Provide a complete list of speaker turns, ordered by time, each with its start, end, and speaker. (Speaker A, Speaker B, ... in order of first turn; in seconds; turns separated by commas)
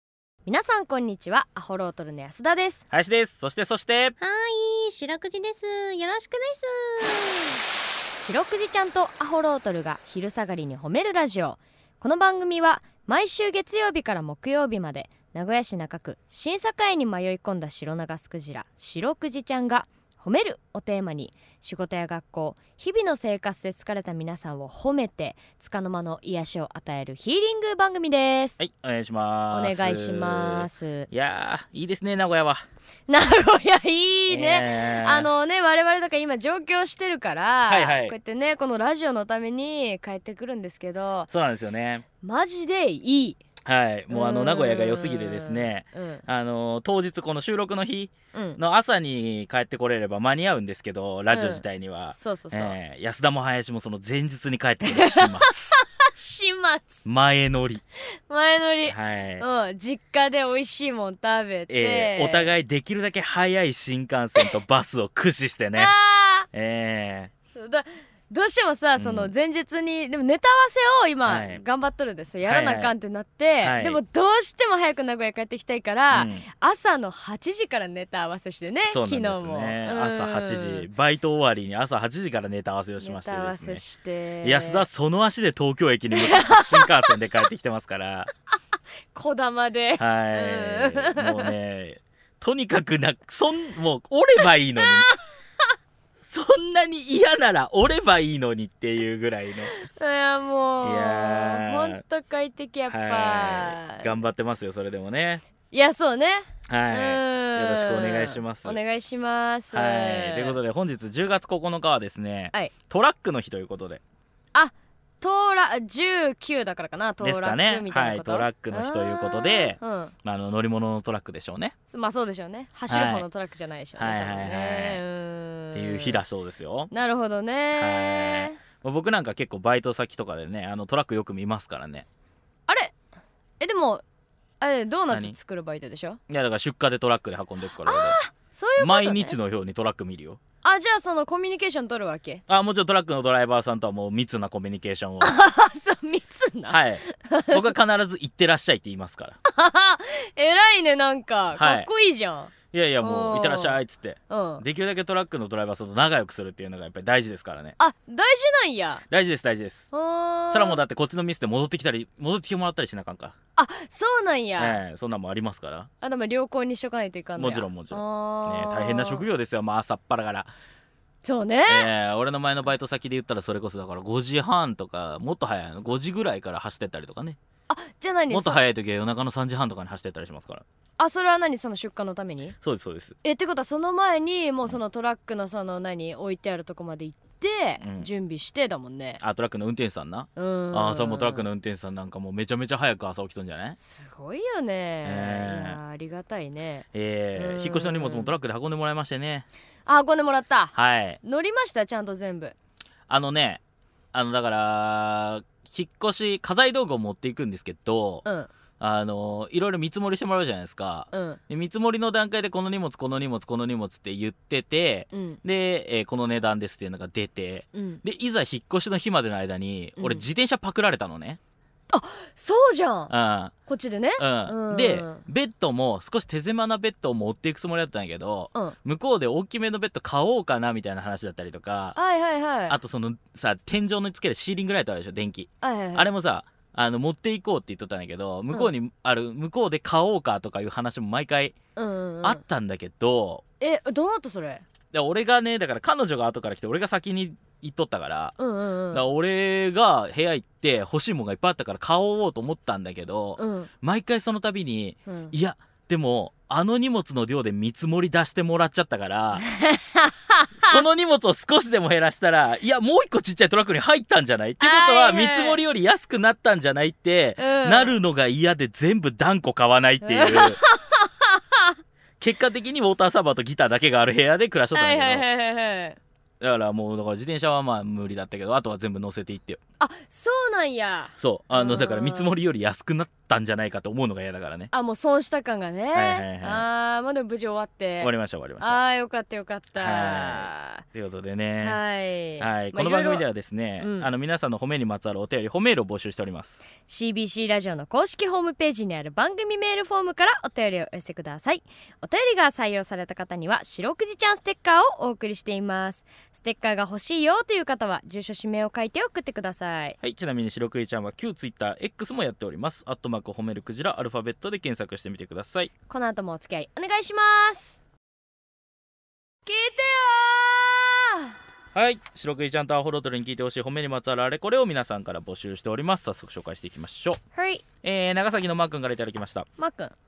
Speaker A: 0.4-2.8, Speaker B: 2.9-4.2, Speaker C: 4.2-7.6, Speaker A: 8.2-28.6, Speaker B: 28.6-32.6, Speaker A: 29.5-31.1, Speaker A: 33.1-41.3, Speaker B: 34.3-35.3, Speaker B: 37.6-38.1, Speaker B: 41.3-42.0, Speaker A: 42.2-43.4, Speaker B: 43.6-55.8, Speaker A: 44.1-46.2, Speaker A: 48.3-48.6, Speaker A: 51.3-52.8, Speaker A: 54.8-57.0, Speaker B: 57.0-57.8, Speaker A: 58.3-62.5, Speaker B: 58.9-59.4, Speaker B: 61.7-65.9, Speaker A: 65.8-66.5, Speaker B: 66.5-67.3, Speaker A: 67.5-80.9, Speaker B: 69.0-69.3, Speaker B: 71.2-71.6, Speaker B: 72.4-72.9, Speaker B: 73.6-74.0, Speaker B: 76.1-76.5, Speaker B: 78.9-83.8, Speaker A: 83.0-84.9, Speaker B: 84.4-88.3, Speaker A: 86.1-87.2, Speaker A: 89.1-91.5, Speaker B: 90.0-95.1, Speaker A: 94.8-95.1, Speaker B: 96.2-99.7, Speaker A: 99.7-104.1, Speaker B: 100.8-102.0, Speaker B: 102.9-105.4, Speaker A: 105.7-110.6, Speaker B: 106.7-108.8, Speaker B: 109.7-114.0, Speaker A: 114.5-120.1, Speaker B: 117.2-121.7, Speaker A: 121.9-126.2, Speaker B: 122.9-123.2, Speaker B: 124.0-125.0, Speaker B: 125.7-126.9, Speaker A: 126.9-128.6, Speaker B: 127.7-132.1, Speaker A: 132.7-132.9, Speaker A: 133.6-134.0, Speaker A: 134.6-136.2, Speaker B: 135.1-135.3, Speaker B: 136.3-138.2, Speaker A: 137.8-139.4, Speaker B: 138.8-140.4, Speaker A: 140.6-142.4, Speaker B: 142.5-145.3, Speaker A: 145.2-147.7, Speaker B: 146.7-149.4, Speaker A: 149.5-154.6, Speaker B: 151.5-151.9, Speaker B: 152.7-157.8, Speaker A: 157.8-159.0, Speaker B: 159.1-159.9, Speaker A: 159.9-160.8, Speaker B: 160.5-163.3, Speaker A: 163.6-164.8, Speaker B: 164.6-165.9, Speaker A: 166.0-169.2, Speaker B: 167.3-170.5, Speaker A: 171.2-171.9, Speaker B: 171.7-177.4, Speaker A: 177.7-178.6, Speaker B: 178.3-180.6, Speaker A: 181.0-182.6, Speaker B: 182.6-183.2, Speaker A: 183.2-189.2, Speaker B: 187.8-188.1, Speaker B: 189.2-193.8, Speaker A: 190.3-191.4, Speaker A: 193.8-198.3, Speaker B: 195.0-195.8, Speaker B: 196.9-199.4, Speaker A: 199.8-202.6, Speaker B: 200.7-201.2, Speaker B: 203.1-203.6, Speaker B: 204.1-208.2, Speaker A: 208.2-208.5, Speaker B: 208.8-221.4, Speaker A: 211.1-211.4, Speaker A: 215.1-215.4, Speaker A: 217.7-218.0, Speaker A: 220.0-220.2, Speaker A: 221.9-223.1, Speaker B: 223.1-223.5, Speaker A: 223.7-225.2, Speaker B: 224.2-232.0, Speaker A: 231.9-232.8, Speaker B: 232.7-241.5, Speaker A: 235.6-236.1, Speaker A: 241.8-242.4, Speaker B: 242.2-243.4, Speaker A: 243.6-244.6, Speaker B: 244.9-248.3, Speaker A: 248.4-249.1, Speaker B: 248.9-259.4, Speaker A: 253.4-253.7, Speaker A: 255.1-255.3, Speaker A: 259.4-260.8, Speaker B: 260.6-270.6, Speaker A: 264.6-265.6, Speaker A: 267.4-268.0, Speaker A: 270.0-271.7, Speaker B: 272.2-275.2, Speaker A: 274.7-276.0, Speaker B: 276.4-279.6, Speaker A: 279.8-282.4, Speaker B: 281.2-284.7, Speaker A: 284.7-290.8, Speaker B: 285.9-286.6, Speaker B: 288.0-288.8, Speaker B: 289.8-291.8, Speaker A: 291.6-293.2, Speaker B: 292.4-296.6, Speaker A: 293.8-294.1, Speaker A: 296.9-310.0, Speaker B: 310.0-315.7, Speaker A: 315.9-317.8, Speaker A: 319.4-321.3, Speaker B: 321.7-327.2, Speaker A: 327.3-327.6, Speaker B: 327.8-329.5, Speaker A: 329.6-329.9